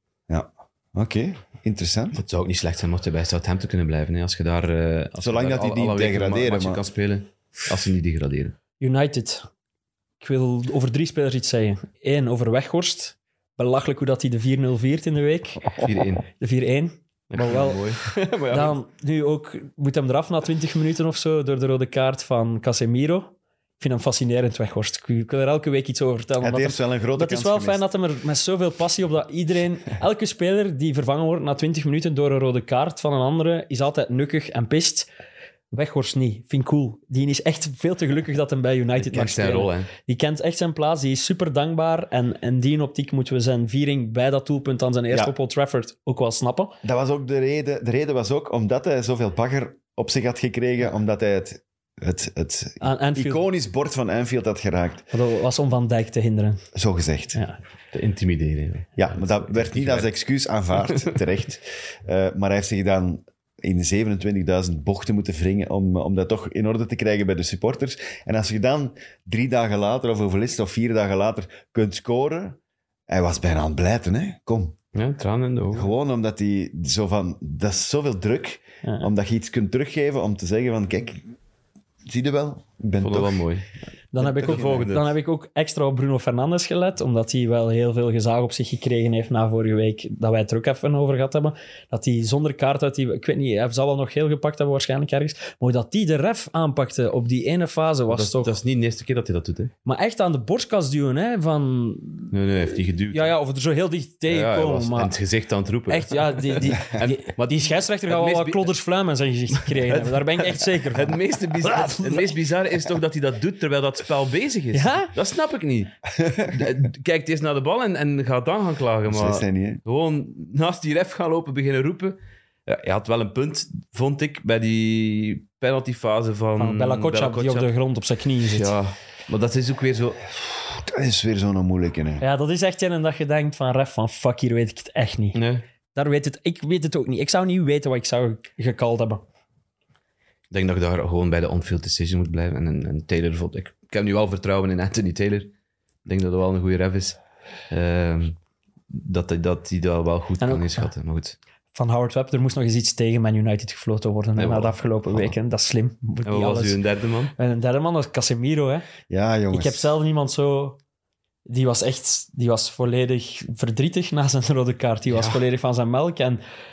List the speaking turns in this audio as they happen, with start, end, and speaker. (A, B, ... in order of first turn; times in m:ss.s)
0:00.3-0:02.2 A
0:02.1-0:08.5 B
0:05.2-0:06.8 A
0:08.8-0:09.5 C
0:10.2-0:15.7 C
0:15.8-0:16.3 B
0:16.4-0:17.9 C
0:17.3-0:18.8 B
0:18.5-0:35.1 C
0:26.4-0:27.8 A
0:35.7-0:46.7 C
0:39.0-0:39.9 B
0:46.8-0:55.1 A
0:52.8-0:53.4 C
0:55.1-0:56.6 C
0:56.7-0:57.4 A
0:57.9-1:00.1 B
0:59.0-1:14.8 A
1:00.8-1:01.1 B
1:14.9-1:15.9 B
1:15.7-1:21.2 A
1:18.8-1:19.1 C
1:22.1-1:23.5 A
1:23.0-1:23.7 B
1:24.1-1:38.5 C
1:24.2-1:24.9 A
1:24.3-1:25.1 B
1:38.1-1:39.7 B
1:39.8-1:42.4 C
1:42.3-1:43.3 B
1:43.1-1:45.1 C
1:44.3-1:48.7 B
1:45.9-1:52.3 C
1:49.5-2:07.7 B
1:54.7-1:55.1 C
1:56.2-1:56.6 A
1:59.0-1:59.8 A
2:06.6-2:08.7 C
2:08.4-2:10.4 B
2:10.8-2:12.2 A
2:12.2-2:15.4 C
2:15.3-2:15.6 B
2:15.9-2:19.2 C
2:20.5-2:25.5 B
2:26.0-2:28.4 B
2:28.9-2:31.4 B
2:30.4-2:30.9 C
2:31.7-2:36.8 C
2:34.4-2:35.3 B
2:36.2-2:37.3 B
2:37.4-2:38.9 C
2:39.1-2:39.9 A
2:39.5-2:40.8 C
2:41.5-2:46.4 C
2:45.1-2:45.4 B